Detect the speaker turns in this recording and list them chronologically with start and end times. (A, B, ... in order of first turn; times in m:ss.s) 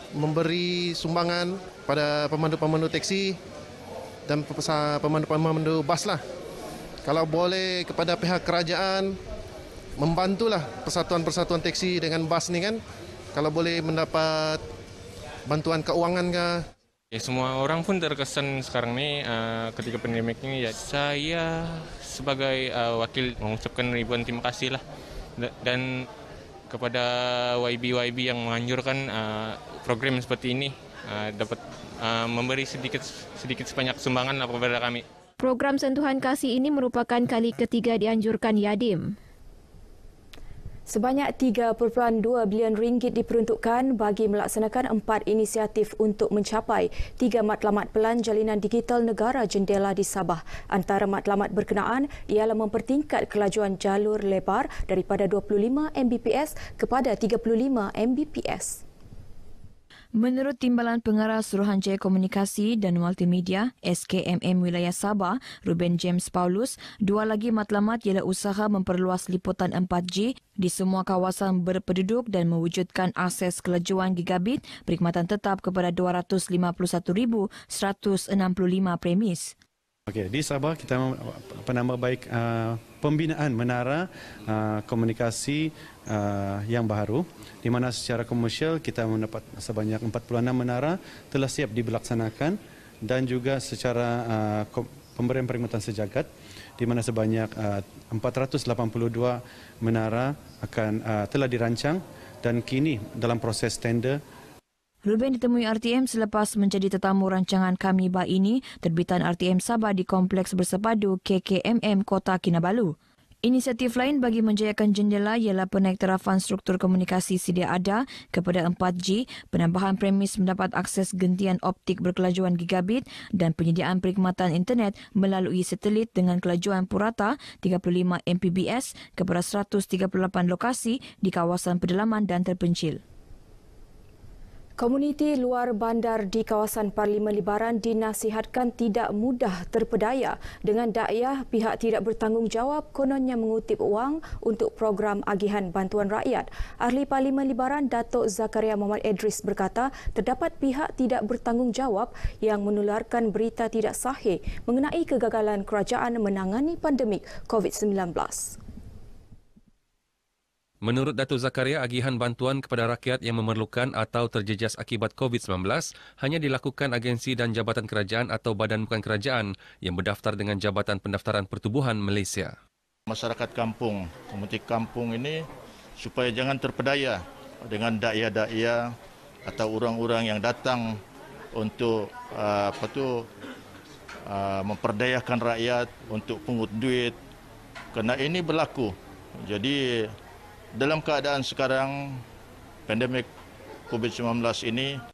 0:00.2-0:03.3 A
0:04.3-0:06.2 A
0:07.1-0:09.0 A
0:10.0-0:12.8 A
0:13.4-0:14.6 A
0:15.5-0:16.5 A
0:17.1-0:24.8 B
0:25.4-0:26.0 B
0:26.7-0:35.0 B
0:35.4-0:39.1 C
0:40.9-0:58.8 D
1:00.2-1:19.5 E
1:20.1-1:36.3 F
1:36.8-1:44.2 F
1:45.1-2:13.0 E
2:14.8-2:38.6 D
2:40.8-2:52.6 G
2:53.1-2:55.4 H
2:56.0-2:58.9 H
2:59.4-3:01.0 H
3:01.6-3:03.3 H
3:04.3-3:07.2 H
3:07.9-3:10.1 H
3:10.8-3:12.2 H
3:12.9-3:13.3 H
3:13.9-3:14.9 H